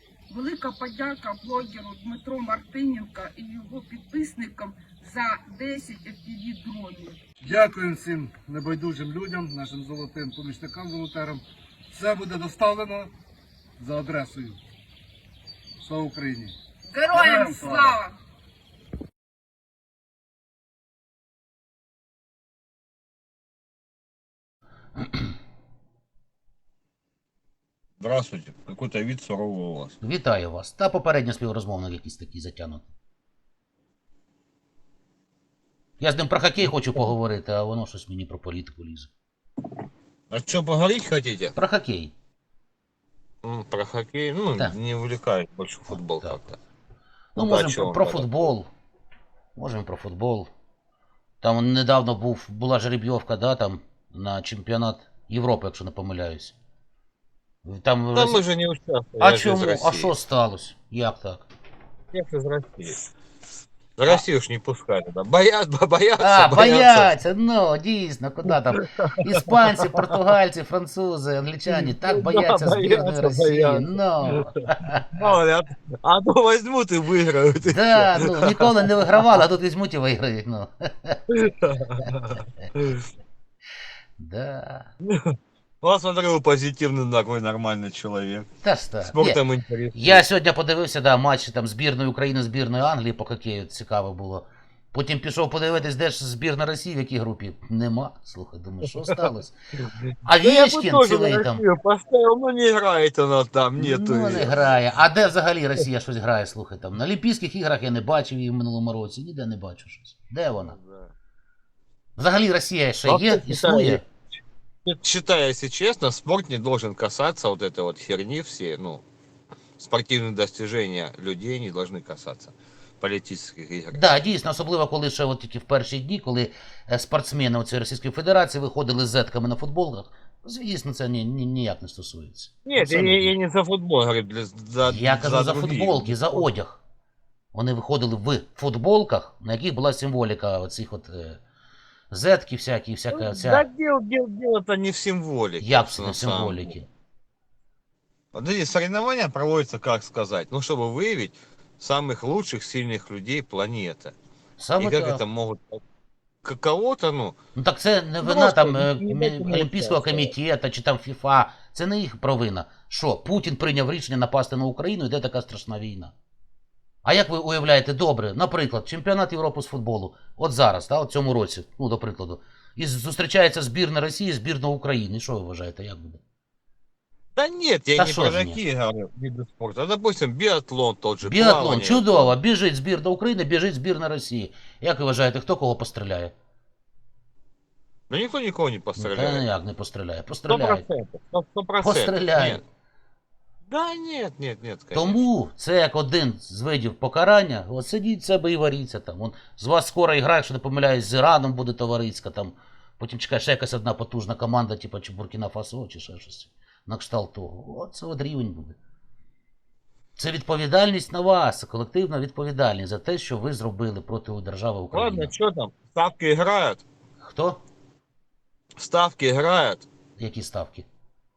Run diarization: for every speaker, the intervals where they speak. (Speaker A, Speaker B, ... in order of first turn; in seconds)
Speaker A: 0.3-7.2, 16.9-18.1
Speaker B: 7.4-13.1, 13.8-14.6, 15.8-16.5, 17.2-17.9
Speaker C: 25.0-25.3, 30.0-32.9, 36.0-39.1, 41.5-42.1, 45.9-46.4, 47.4-48.7, 49.5-50.5, 51.4-56.5, 57.6-58.4, 59.2-61.5, 66.2-75.0, 77.7-81.2, 84.2-84.9, 88.6-89.4, 89.9-99.5, 100.2-101.6, 103.8-110.8, 112.2-114.0, 123.9-133.3, 134.8-136.8, 137.5-141.4, 142.1-143.7, 145.6-146.9, 154.6-155.2, 157.5-166.1, 167.0-176.2, 177.9-178.6, 181.2-186.3, 189.0-190.8, 191.8-192.6, 194.9-208.8, 210.2-215.3, 217.2-217.6, 220.2-220.9
Speaker D: 28.0-29.9, 40.3-41.5, 43.4-46.6, 47.4-48.3, 58.1-60.1, 62.1-63.1, 64.0-67.1, 68.5-70.0, 71.7-74.5, 75.1-78.7, 81.3-83.0, 85.8-88.5, 89.0-90.2, 100.1-104.8, 110.6-111.1, 113.0-114.0, 114.8-119.0, 119.8-124.2, 132.6-136.5, 143.1-146.7, 148.3-154.1, 154.8-155.8, 156.4-157.3, 158.2-160.3, 177.3-182.3, 188.1-189.4, 190.5-192.6, 193.7-195.2, 214.9-216.8, 218.8-219.8